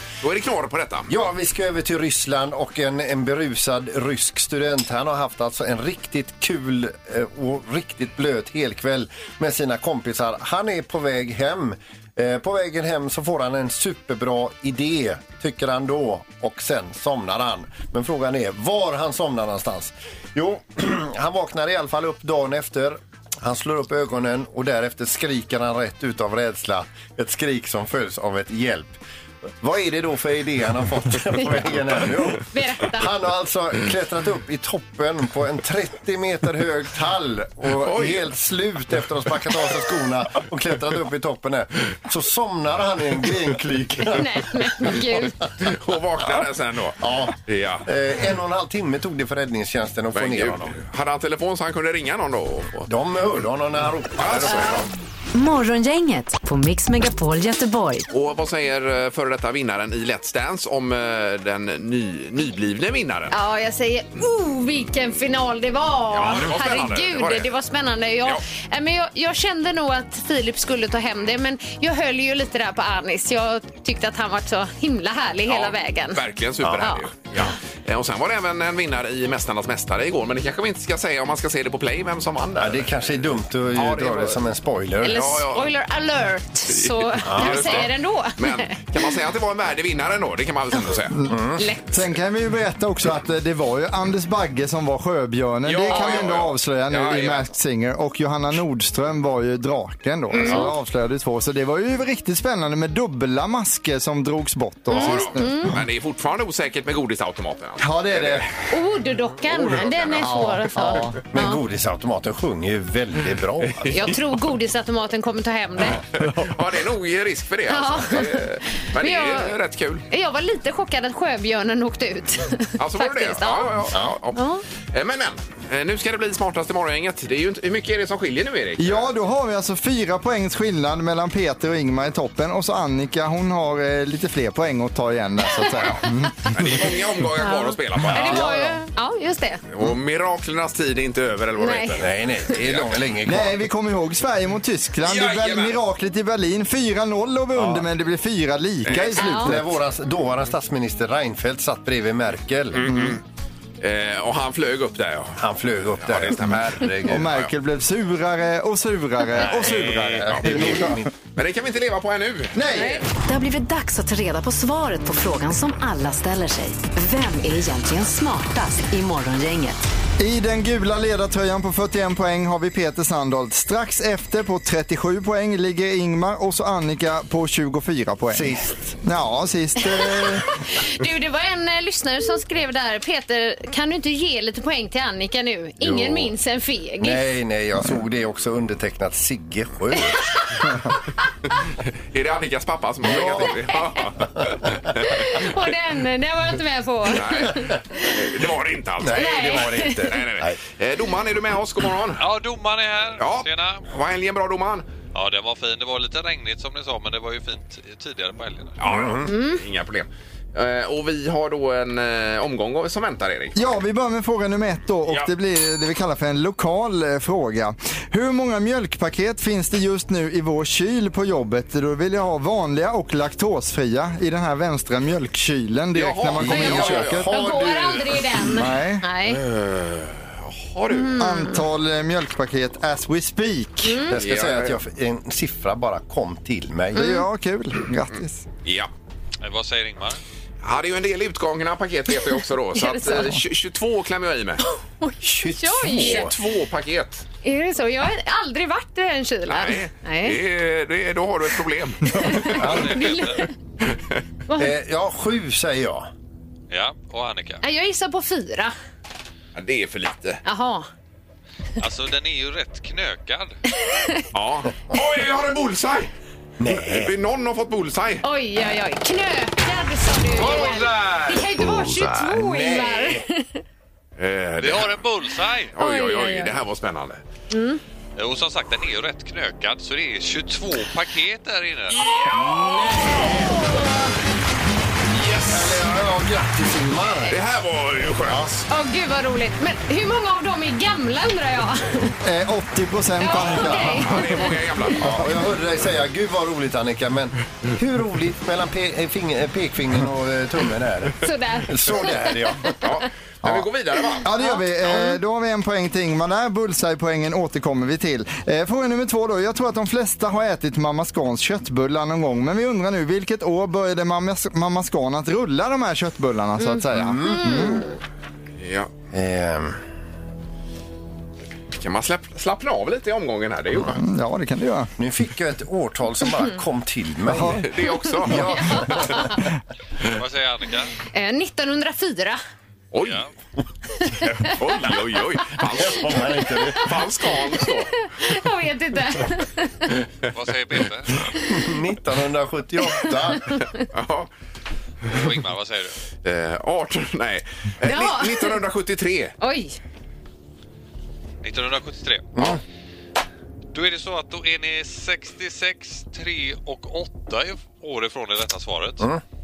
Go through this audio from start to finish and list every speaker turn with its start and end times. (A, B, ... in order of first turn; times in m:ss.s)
0:00.2-0:01.1 A
0:01.1-0:29.0 B
0:29.6-0:45.7 B
0:32.4-0:33.1 C
0:37.7-0:38.2 A
0:44.1-0:45.4 C
0:45.6-0:47.9 A
0:47.0-0:50.8 B
0:50.1-0:52.9 A
0:52.9-0:54.9 B
0:54.2-0:54.9 A
0:55.3-0:58.0 D
0:58.1-1:03.3 A
1:03.3-1:16.2 C
1:06.1-1:07.5 A
1:15.5-1:23.2 A
1:16.6-1:16.9 B
1:16.8-1:17.1 C
1:22.6-1:25.2 B
1:23.7-1:24.4 A
1:25.0-1:28.8 C
1:25.0-1:25.7 A
1:26.7-1:31.2 A
1:27.2-1:27.9 B
1:31.1-1:45.8 E
1:31.3-1:31.6 B
1:31.6-1:32.0 C
1:35.6-1:37.5 A
1:35.9-1:36.2 C
1:40.3-1:40.7 C
1:44.9-1:45.7 C
1:44.9-1:48.5 A
1:47.8-1:48.4 E
1:48.7-1:51.6 C
1:49.5-1:50.4 A
1:50.2-1:51.2 E
1:51.3-1:53.9 B
1:53.9-1:56.0 C
1:55.9-2:00.0 A
1:57.7-1:59.6 C
2:00.1-2:04.6 C
2:02.8-2:04.4 A
2:04.9-2:09.1 A
2:08.8-2:16.9 E
2:15.8-2:18.5 A
2:17.4-2:19.6 C
2:18.1-2:18.8 E
2:19.7-2:23.0 A
2:21.6-2:22.0 C
2:22.0-2:23.6 B
2:23.2-2:29.7 E
2:25.0-2:25.8 A
2:27.6-2:27.8 B
2:28.8-2:29.2 A
2:29.2-2:29.5 C
2:29.3-2:33.1 B
2:32.7-2:33.2 A
2:32.9-2:33.2 E
2:33.8-2:37.5 A
2:35.4-2:37.3 B
2:37.1-2:41.0 E
2:39.4-2:41.1 B
2:40.3-2:42.8 A
2:42.5-2:43.0 E
2:42.7-2:43.0 C
2:43.2-2:49.8 D
2:50.2-2:58.5 E
2:58.3-2:59.0 B
2:59.0-3:00.4 E
3:00.0-3:07.2 C
3:05.8-3:06.3 B
3:07.0-3:10.7 B
3:12.1-3:15.5 A
3:13.0-3:13.6 B
3:14.4-3:14.8 B
3:15.0-3:18.1 C
3:17.1-3:22.2 A
3:19.0-3:20.6 B
3:19.1-3:20.1 C
3:22.2-3:23.9 F
3:23.2-3:24.8 A
3:25.1-3:28.8 F
3:28.8-3:33.6 A
3:28.9-3:29.3 B
3:29.2-3:29.6 C
3:33.5-3:47.3 E
3:45.9-3:47.3 A
3:46.4-3:48.3 B
3:46.5-3:49.4 C
3:48.4-3:49.0 E
3:49.3-3:51.1 A
3:50.9-3:51.6 C
3:51.2-3:54.0 E
3:53.8-3:54.2 C
3:54.1-3:57.1 B
3:54.2-3:54.8 A
3:56.9-3:58.4 E
3:56.9-3:57.2 C
3:58.6-3:58.9 A
3:59.4-4:00.2 F
4:00.6-4:04.6 A
4:02.7-4:03.4 C
4:04.7-4:06.3 C
4:05.2-4:06.3 B
4:05.9-4:07.2 A
4:07.4-4:10.4 C
4:09.5-4:12.6 A
4:12.1-4:13.5 C
4:12.5-4:13.5 F
4:12.6-4:13.0 B
4:13.9-4:14.2 A
4:14.5-4:16.1 B
4:16.7-4:17.6 F
4:17.6-4:18.7 C
4:19.5-4:20.4 A
4:20.4-4:20.9 C
4:21.8-4:23.6 F
4:23.8-4:24.2 C
4:24.3-4:26.1 A
4:26.6-4:27.1 B
4:26.6-4:28.2 A
4:28.2-4:33.6 C
4:30.4-4:31.4 B
4:30.6-4:30.9 A
4:32.2-4:33.2 B
4:34.2-4:35.0 A
4:34.6-4:35.7 F
4:35.7-4:37.2 A
4:35.8-4:36.5 C
4:37.5-4:37.8 C
4:38.2-4:42.0 F
4:41.9-4:43.6 A
4:42.3-4:43.6 B
4:43.4-4:44.1 C
4:45.1-4:45.8 A
4:45.5-4:47.4 B
4:47.3-4:48.6 A
4:48.2-4:48.6 B
4:48.7-4:52.1 C
4:52.2-4:54.2 E
4:53.2-4:54.9 C
4:53.4-4:55.2 A
4:55.0-5:02.8 B
5:01.2-5:02.9 C
5:02.8-5:04.3 A
5:04.2-5:05.1 C
5:04.2-5:17.8 E
5:16.6-5:17.9 C
5:16.9-5:17.8 B
5:18.6-5:18.9 A
5:19.1-5:19.8 B
5:21.7-5:24.0 A
5:23.8-5:24.9 E
5:25.0-5:27.6 B
5:27.3-5:27.7 E
5:27.6-5:28.5 A
5:28.2-5:28.6 E
5:28.2-5:29.5 B
5:28.5-5:29.4 C
5:30.1-5:30.9 F
5:31.1-5:32.4 C
5:32.9-5:33.2 A
5:33.0-5:33.3 F
5:34.2-5:37.9 A
5:35.7-5:37.0 B
5:37.6-5:39.9 C
5:40.3-5:41.2 F
5:41.4-5:43.6 B
5:42.9-5:43.6 C
5:43.9-5:44.3 A
5:45.1-5:46.0 F
5:46.2-5:49.4 A
5:47.8-5:48.6 C
5:49.4-5:49.8 C
5:51.4-5:52.6 F
5:52.4-5:52.6 B
5:53.7-5:59.1 F